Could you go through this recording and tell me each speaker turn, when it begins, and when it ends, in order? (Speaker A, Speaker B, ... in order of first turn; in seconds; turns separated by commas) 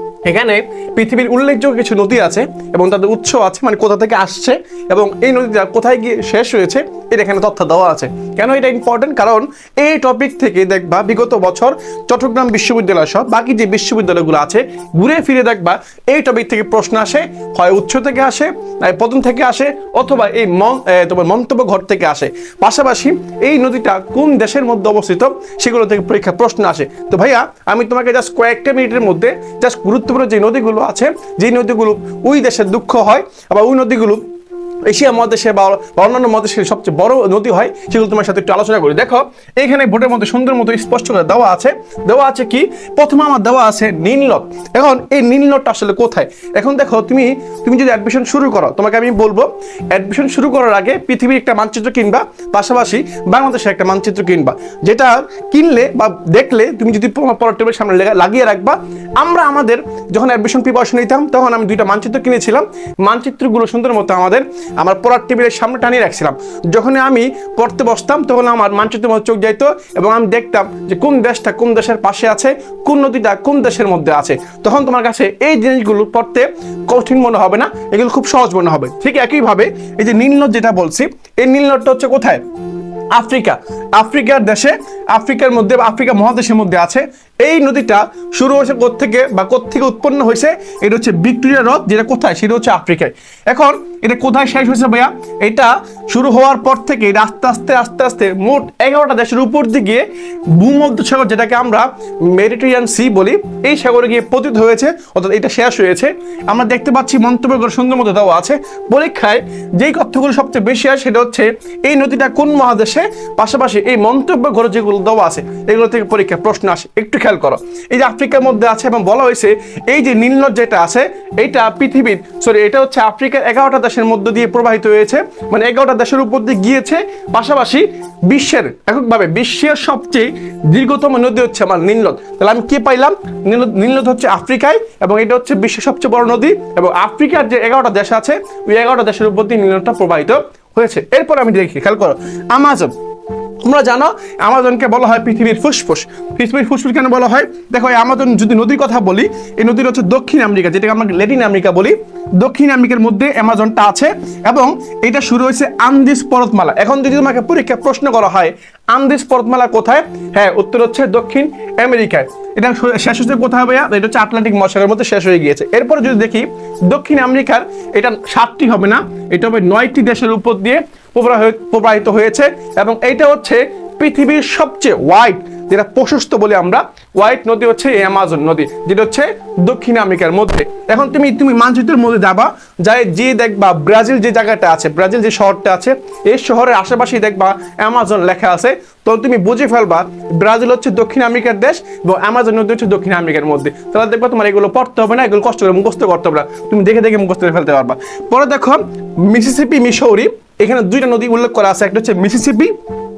Speaker A: 0.2-34.2, Speaker A: 34.9-82.4, Speaker A: 83.1-142.9, Speaker A: 143.6-202.7